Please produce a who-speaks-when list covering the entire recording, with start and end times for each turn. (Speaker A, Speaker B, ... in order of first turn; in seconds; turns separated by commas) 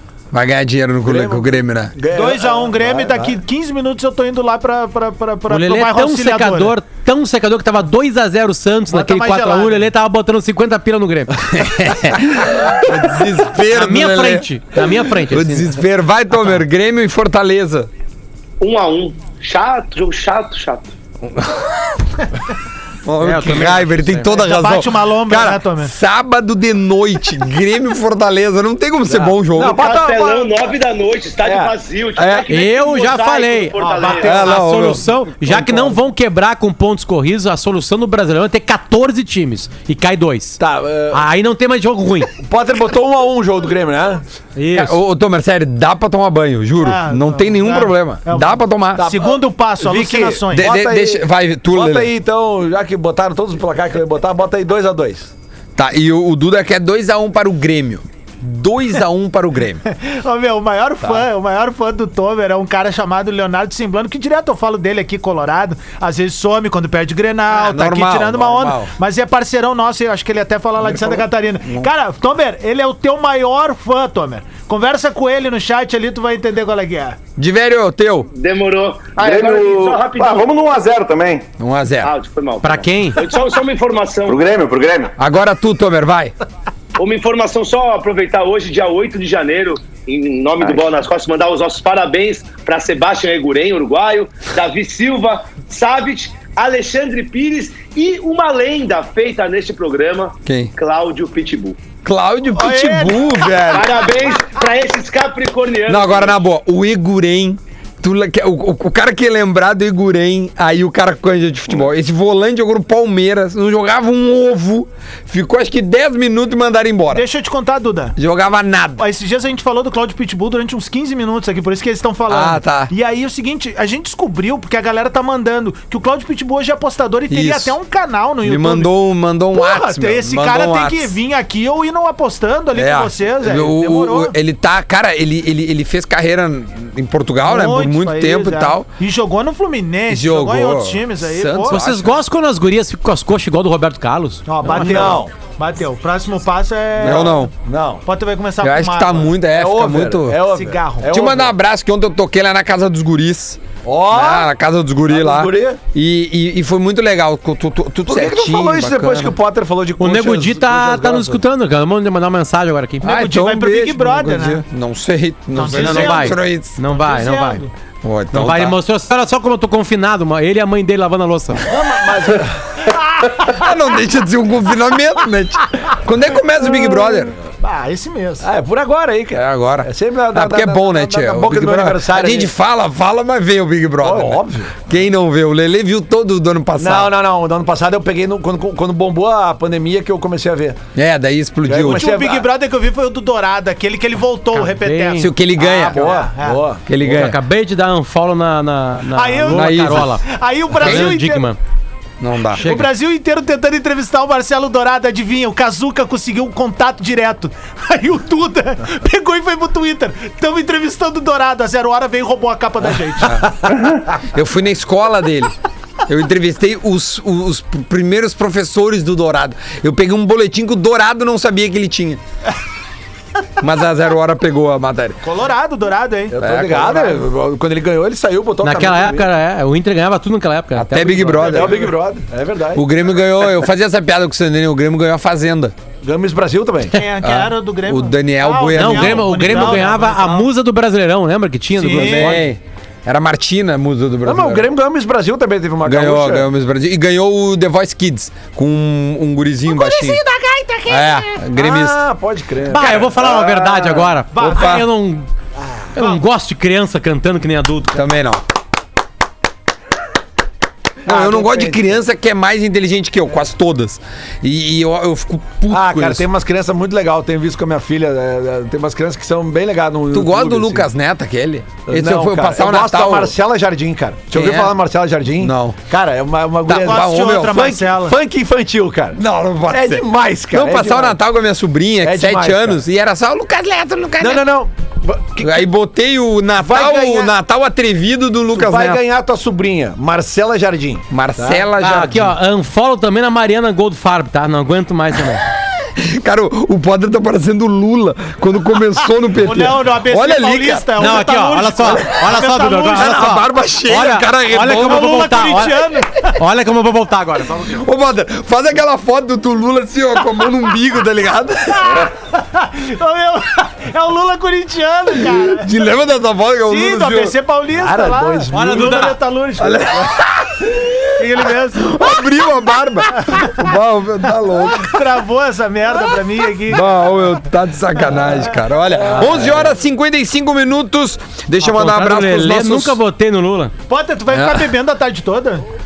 Speaker A: 0.3-1.9, Speaker B: 1.0-3.4, Speaker C: 2.1-6.8, Speaker D: 5.5-11.4, Speaker C: 8.9-9.8, Speaker A: 11.5-17.9, Speaker D: 13.7-15.8, Speaker E: 18.6-20.9, Speaker A: 21.2-21.9, Speaker A: 23.0-29.8, Speaker D: 23.2-24.4, Speaker C: 24.3-25.9, Speaker B: 29.1-30.5, Speaker E: 29.7-34.4, Speaker B: 31.4-31.7, Speaker A: 32.1-32.5, Speaker D: 32.5-42.3, Speaker C: 33.8-34.4, Speaker A: 34.2-35.0, Speaker B: 35.4-36.0, Speaker B: 40.6-41.2, Speaker B: 42.4-44.2, Speaker D: 44.5-45.0, Speaker A: 44.7-49.1, Speaker C: 46.8-50.7, Speaker B: 49.0-55.3, Speaker A: 50.5-52.1, Speaker A: 55.8-59.8, Speaker C: 59.9-77.2, Speaker A: 67.5-68.9, Speaker A: 77.4-78.3, Speaker E: 78.3-80.5, Speaker F: 79.2-81.5, Speaker A: 81.6-82.1, Speaker E: 82.0-84.4, Speaker D: 82.6-83.2, Speaker F: 84.2-85.1, Speaker A: 85.2-86.3, Speaker E: 87.0-101.8, Speaker A: 100.4-100.7, Speaker A: 102.0-103.9, Speaker C: 102.5-103.5, Speaker E: 103.7-106.4, Speaker A: 105.8-117.2, Speaker C: 117.1-118.2, Speaker A: 118.2-119.0, Speaker C: 119.0-128.9, Speaker A: 122.3-122.9, Speaker A: 127.3-127.8, Speaker A: 128.4-131.2, Speaker C: 129.5-134.3, Speaker A: 132.7-138.9, Speaker C: 137.4-141.8, Speaker A: 140.1-142.2, Speaker D: 141.7-145.2, Speaker C: 144.4-147.4, Speaker B: 144.6-145.3, Speaker A: 147.0-147.5, Speaker B: 147.0-148.0, Speaker C: 148.0-149.4, Speaker A: 148.6-150.4, Speaker B: 149.4-151.5, Speaker C: 150.5-151.1, Speaker A: 151.0-159.4, Speaker B: 153.8-154.5, Speaker B: 155.1-155.8, Speaker B: 158.1-161.4, Speaker D: 160.0-163.2, Speaker C: 163.0-164.6, Speaker A: 163.0-166.8, Speaker C: 165.5-166.3, Speaker D: 165.7-167.6, Speaker C: 166.9-167.7, Speaker A: 168.0-168.7, Speaker D: 168.3-171.7, Speaker B: 171.6-172.9, Speaker A: 173.4-177.3, Speaker B: 176.6-177.4, Speaker C: 177.6-178.4, Speaker B: 178.4-182.5, Speaker A: 179.3-187.1, Speaker B: 184.0-184.7, Speaker B: 186.8-190.8, Speaker A: 190.9-192.1, Speaker B: 191.7-192.5, Speaker C: 191.9-196.6, Speaker D: 194.5-195.3, Speaker A: 195.2-196.2, Speaker B: 195.6-196.8, Speaker A: 196.9-197.4, Speaker D: 197.0-200.2, Speaker C: 199.1-201.5, Speaker A: 199.5-200.1, Speaker D: 200.8-201.6, Speaker A: 200.8-201.1, Speaker A: 202.2-202.6, Speaker D: 202.5-202.9, Speaker C: 202.6-213.8, Speaker A: 213.2-213.5, Speaker A: 214.2-215.5, Speaker A: 216.1-222.2, Speaker A: 223.6-225.2, Speaker C: 225.2-227.0, Speaker B: 226.3-229.3, Speaker A: 226.4-227.1, Speaker D: 228.6-231.8, Speaker A: 230.7-231.9, Speaker B: 231.3-232.8, Speaker A: 232.7-235.7, Speaker B: 236.0-237.0, Speaker C: 236.9-240.5, Speaker A: 237.2-239.8, Speaker D: 238.7-242.4, Speaker C: 241.8-242.4, Speaker A: 241.9-244.7, Speaker B: 244.2-246.5, Speaker A: 245.8-250.2, Speaker C: 249.8-250.8, Speaker A: 250.9-252.0, Speaker B: 251.5-253.0, Speaker D: 252.7-255.3, Speaker F: 252.8-254.1, Speaker C: 254.3-254.8, Speaker A: 254.4-254.8, Speaker D: 255.9-258.0, Speaker A: 257.9-258.5, Speaker B: 261.0-262.0, Speaker A: 261.0-266.3, Speaker B: 265.7-270.9, Speaker A: 270.1-273.4, Speaker B: 271.9-281.2, Speaker A: 274.3-274.8, Speaker A: 275.4-275.8, Speaker A: 276.6-277.7, Speaker C: 276.7-278.1, Speaker A: 279.1-284.5, Speaker B: 282.0-282.8, Speaker B: 284.2-285.7, Speaker A: 285.4-289.0, Speaker B: 286.6-287.3, Speaker B: 288.5-291.7, Speaker A: 291.1-292.4, Speaker D: 291.8-295.4, Speaker A: 295.8-301.0, Speaker C: 299.3-303.2, Speaker D: 301.0-307.8, Speaker A: 302.9-305.2, Speaker C: 304.6-306.3, Speaker A: 307.5-312.1, Speaker C: 311.9-315.7, Speaker A: 315.3-317.3, Speaker C: 316.6-320.1, Speaker B: 317.7-319.0, Speaker D: 318.5-319.2, Speaker A: 319.6-325.0, Speaker C: 321.2-322.0, Speaker C: 323.2-323.5, Speaker C: 324.6-326.9, Speaker A: 326.6-333.0, Speaker B: 329.0-329.7, Speaker D: 331.6-333.7, Speaker C: 333.9-335.6, Speaker A: 334.3-334.7